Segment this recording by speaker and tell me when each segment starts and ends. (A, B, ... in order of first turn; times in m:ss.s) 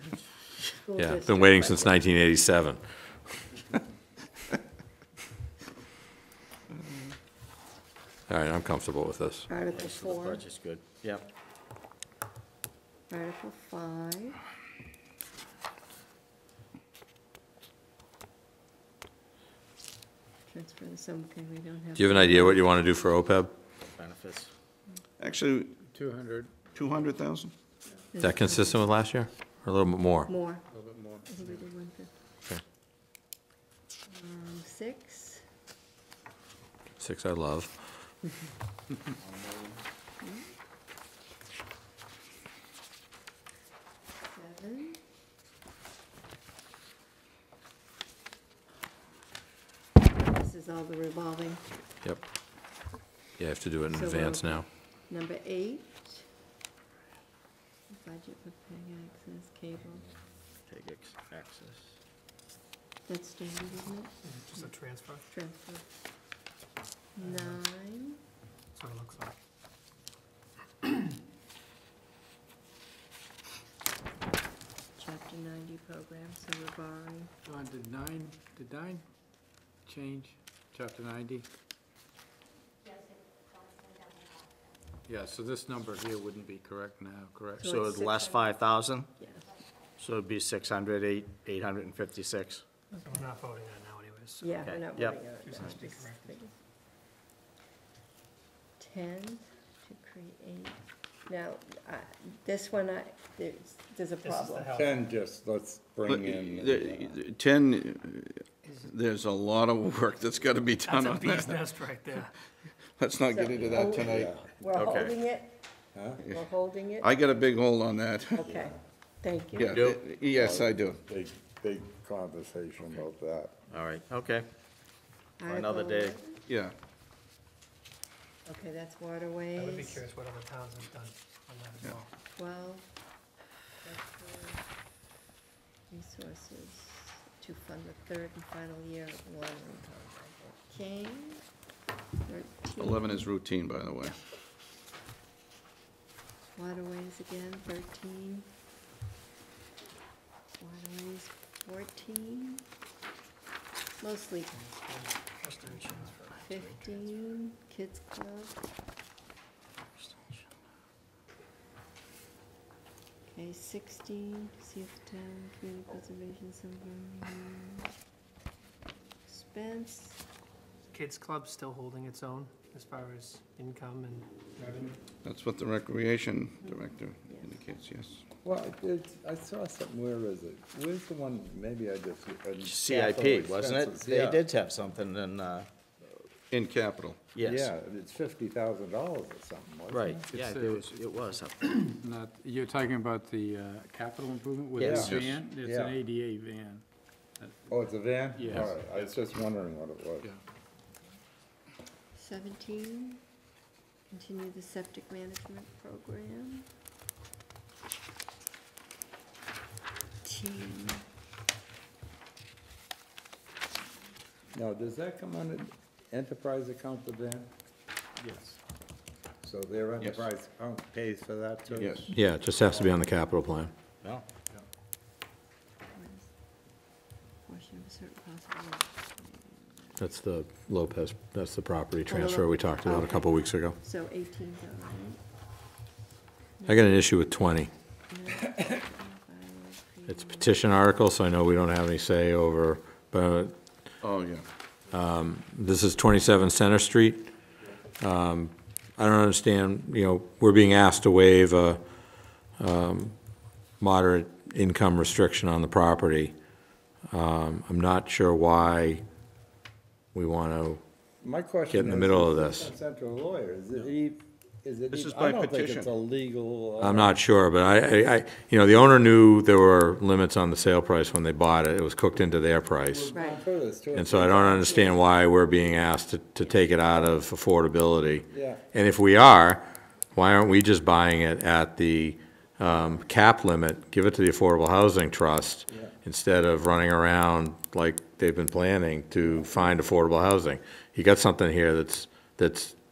0:00.8-0:02.0 A
0:01.0-0:03.1 B
0:08.3-0:09.5 B
0:09.5-0:10.4 A
0:09.7-0:11.3 C
0:13.1-0:14.4 A
0:20.5-0:22.7 A
0:22.0-0:23.5 B
0:23.9-0:24.5 C
0:25.2-0:25.8 D
0:25.9-0:26.6 E
0:26.7-0:27.5 D
0:28.1-0:28.9 A
0:28.2-0:30.3 B
0:30.2-0:30.6 A
0:30.7-0:31.3 E
0:31.2-0:32.1 A
0:34.1-0:35.4 A
0:37.0-0:37.7 B
0:39.2-0:39.8 C
0:40.2-0:40.5 A
0:44.2-0:45.0 A
0:50.2-0:51.7 A
0:53.4-0:54.6 B
0:53.9-0:56.3 A
0:57.9-1:00.0 A
1:00.7-1:02.0 C
1:03.0-1:04.7 A
1:04.2-1:05.3 F
1:05.3-1:05.9 A
1:07.2-1:08.2 A
1:07.2-1:07.6 F
1:08.7-1:09.4 F
1:15.0-1:17.3 A
1:17.4-1:19.0 E
1:19.8-1:21.4 E
1:25.1-1:27.7 E
1:27.6-1:28.6 A
1:27.6-1:29.1 C
1:29.2-1:29.4 A
1:30.0-1:32.6 C
1:32.9-1:34.5 F
1:34.4-1:36.5 A
1:34.6-1:35.2 C
1:35.4-1:36.4 F
1:38.8-1:44.7 A
1:44.2-1:45.1 F
1:44.7-1:47.2 G
1:46.0-1:51.7 D
1:50.8-1:52.3 F
1:53.0-1:54.3 D
1:53.3-1:55.6 A
1:53.8-1:54.6 G
1:54.8-1:55.1 C
1:55.9-1:56.2 G
1:56.2-1:57.1 A
1:57.0-1:58.5 D
1:58.4-1:59.8 A
1:58.4-1:58.7 G
1:59.6-2:01.0 D
1:59.7-2:00.0 C
2:00.3-2:03.5 G
2:03.7-2:04.5 C
2:05.4-2:06.4 A
2:05.5-2:06.2 C
2:06.5-2:06.7 D
2:08.4-2:10.0 A
2:09.5-2:12.1 F
2:12.4-2:12.9 A
2:13.8-2:14.6 A
2:15.9-2:21.4 A
2:22.2-2:23.2 A
2:22.8-2:24.2 D
2:26.5-2:28.5 A
2:30.6-2:32.6 A
2:34.0-2:34.8 A
2:34.6-2:37.1 F
2:36.4-2:38.6 A
2:43.3-2:47.9 A
2:49.3-2:50.2 A
2:50.9-2:55.0 F
2:55.2-2:58.2 D
2:58.4-3:04.4 G
3:02.6-3:05.7 C
3:06.5-3:07.2 D
3:07.3-3:07.7 C
3:07.4-3:10.2 G
3:09.9-3:11.9 C
3:10.3-3:11.3 E
3:11.8-3:16.8 E
3:14.8-3:15.2 C
3:14.8-3:16.0 G
3:14.9-3:15.5 D
3:17.7-3:20.3 G
3:18.3-3:18.7 E
3:22.1-3:23.2 A
3:24.1-3:26.7 A
3:30.2-3:31.0 A
3:34.5-3:37.5 G
3:38.2-3:38.6 C
3:39.4-3:42.1 G
3:40.0-3:40.3 D
3:41.7-3:42.1 D
3:42.1-3:43.7 B
3:45.9-3:46.3 A
3:47.4-3:50.0 A
3:50.0-3:53.8 B
3:52.1-3:55.2 A
3:56.6-3:57.0 A
3:56.7-3:57.7 B
3:58.1-4:00.6 A
4:00.1-4:03.5 B
4:04.0-4:04.4 D
4:04.9-4:07.3 B
4:08.0-4:11.8 B
4:12.6-4:13.2 B
4:13.8-4:16.3 B
4:17.1-4:19.0 B
4:20.1-4:20.8 B
4:21.2-4:27.2 G
4:21.7-4:22.7 B
4:24.9-4:25.9 D
4:26.8-4:33.1 B
4:32.9-4:35.0 G
4:33.1-4:33.4 A
4:33.9-4:52.7 B
4:38.3-4:38.6 G
4:45.7-4:45.9 G
4:49.3-4:49.7 G